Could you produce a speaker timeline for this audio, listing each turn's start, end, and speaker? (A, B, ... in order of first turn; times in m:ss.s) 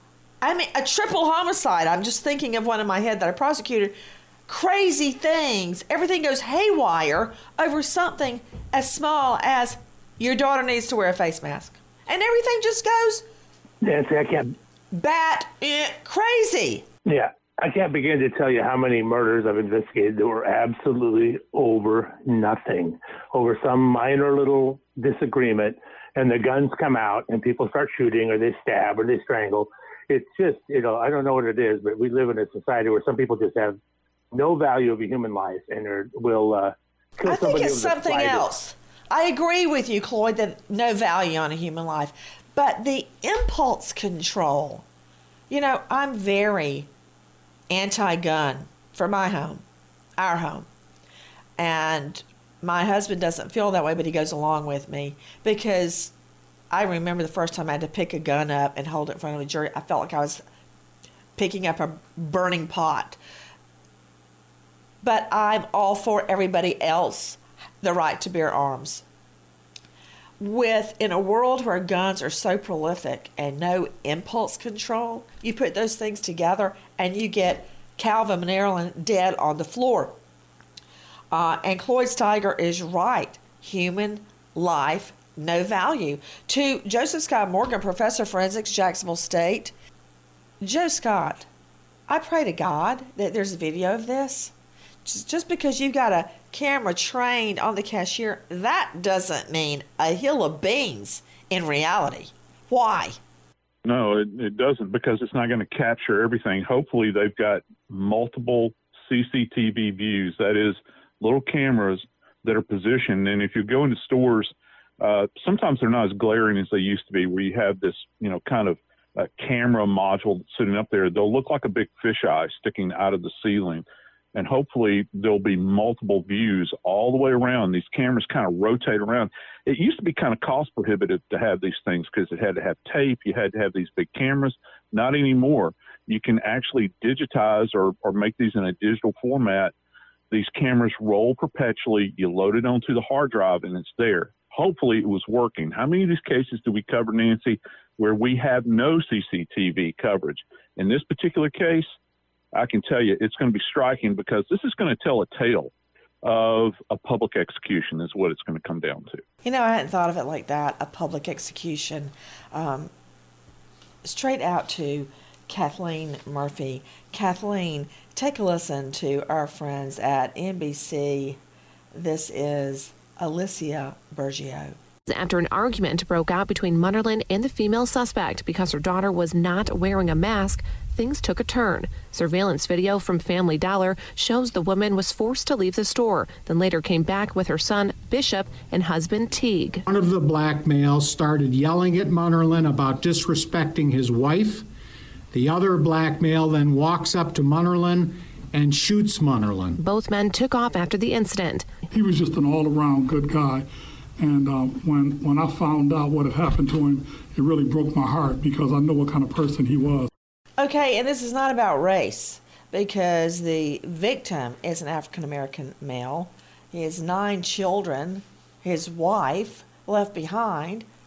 0:00.4-0:03.9 A
0:04.5-0:13.2 A
0:13.8-0:14.5 B
0:14.9-0:16.8 A
0:17.0-0:33.8 B
0:34.3-0:38.5 B
0:37.2-0:44.8 A
0:45.5-0:46.9 A
0:47.7-0:49.6 A
0:50.2-0:50.7 A
0:51.6-0:56.1 A
0:56.7-1:00.4 A
1:01.4-1:03.2 A
1:05.0-1:09.0 A
1:10.4-1:20.2 A
1:21.3-1:29.7 A
1:30.6-1:31.5 A
1:32.1-1:34.5 A
1:35.0-1:43.2 A
1:43.8-2:19.7 C
2:20.3-2:31.9 C
2:32.5-2:35.7 C
2:36.2-2:39.2 C
2:39.4-2:42.9 A
2:44.0-2:51.4 A
2:51.9-2:54.8 A
2:55.1-3:09.8 D
3:09.9-3:14.6 E
3:15.3-3:19.8 E
3:19.8-3:21.7 D
3:21.9-3:30.1 F
3:30.6-3:40.9 A